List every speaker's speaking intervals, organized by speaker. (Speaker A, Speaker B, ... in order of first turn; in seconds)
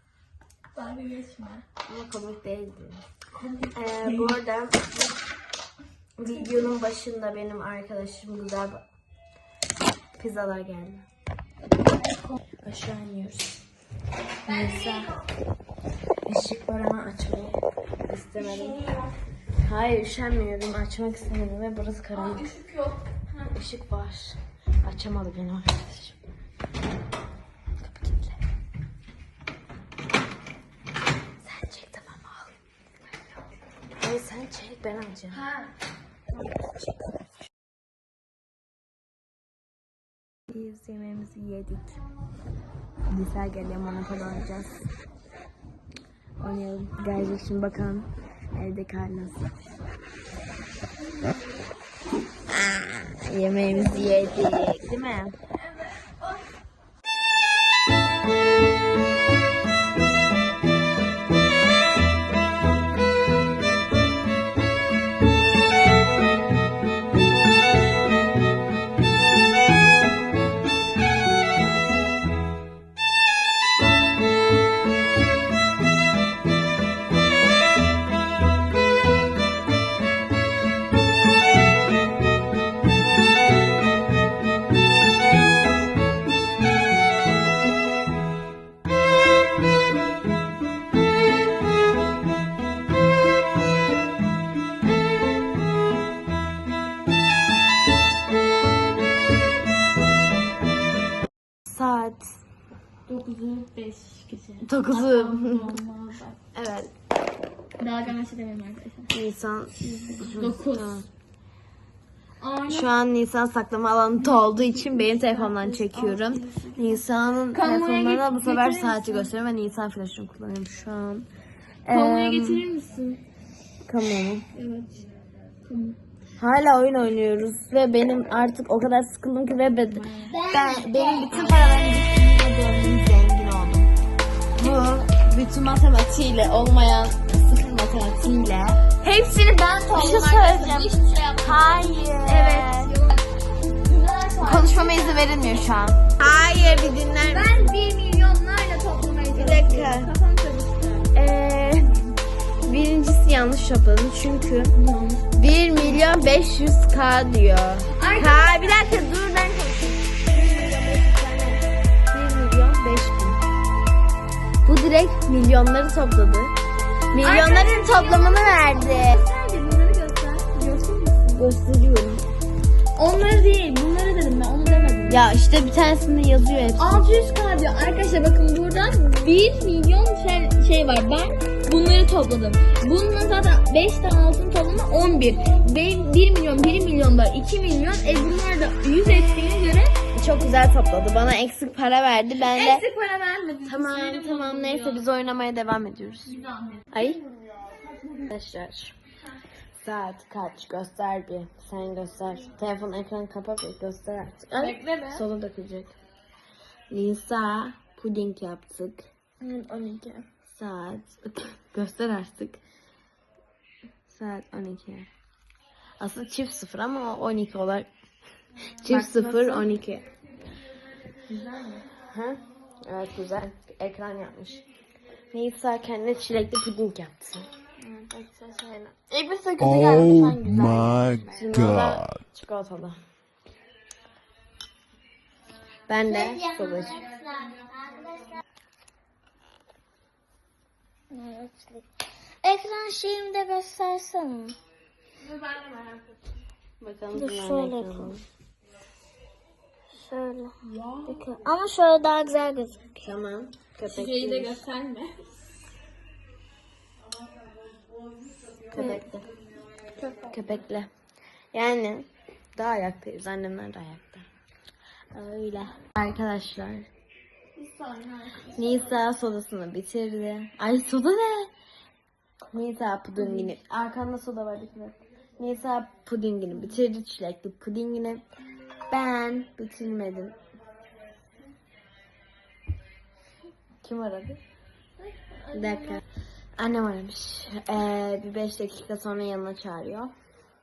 Speaker A: 0.7-1.6, 3.3-4.4, 11.8-12.4, 14.4-15.2, 18.4-19.1, 22.1-23.2, 35.3-35.7, 51.1-51.4, 53.6-54.3, 55.5-56.5, 103.0-106.4, 107.8-109.1, 109.8-111.0, 112.4-112.9, 114.3-119.3, 121.9-123.2, 124.5-125.0, 125.7-126.0, 130.0-130.4, 139.0-145.5, 146.2-151.1, 154.7-156.0, 157.9-159.0, 167.1-171.4, 172.9-175.2, 176.8-190.0, 192.4-195.0, 196.2-198.3, 204.6-205.2, 209.4-210.2, 218.8-219.7, 221.3-221.9, 227.8-231.7, 236.9-237.4, 241.1-241.8, 245.2-246.2, 247.5-247.8, 250.6-251.3, 253.8-255.4, 259.9-260.4, 267.6-268.6, 273.2-273.6, 285.0-286.0
Speaker B: 1.9-3.0, 3.7-5.1, 6.2-8.8, 10.2-11.1, 12.6-13.6, 14.4-15.2, 16.2-18.8, 19.6-22.5, 23.4-26.2, 27.8-28.4, 31.4-32.5, 34.0-35.4, 40.5-42.0, 43.1-44.9, 46.4-49.5, 52.5-55.3, 101.7-102.3, 104.6-105.7, 106.5-106.9, 109.1-111.1, 112.7-121.3, 121.8-122.6, 123.9-124.4, 126.4-133.9, 134.6-138.9, 139.9-142.9, 144.4-147.7, 149.3-150.1, 151.1-152.0, 152.6-154.7, 155.3-163.4, 164.6-166.5, 167.1-169.2, 171.3-172.3, 175.1-177.1, 190.1-192.8, 193.6-196.3, 196.9-197.2, 198.3-198.9, 199.8-205.9, 206.9-209.1, 210.5-212.6, 214.1-215.1, 216.0-217.9, 218.8-220.1, 222.0-224.6, 225.3-227.5, 231.3-233.0, 235.9-237.0, 246.8-248.2, 252.9-254.6, 258.7-259.3, 260.3-260.9, 261.5-264.2, 265.1-266.9, 268.5-271.5, 272.4-278.2, 278.9-280.3, 283.8-284.4, 285.5-286.0, 286.6-290.1
Speaker C: 130.3-131.4, 236.1-238.4, 242.4-244.6, 247.1-248.1, 249.9-250.5, 251.1-253.0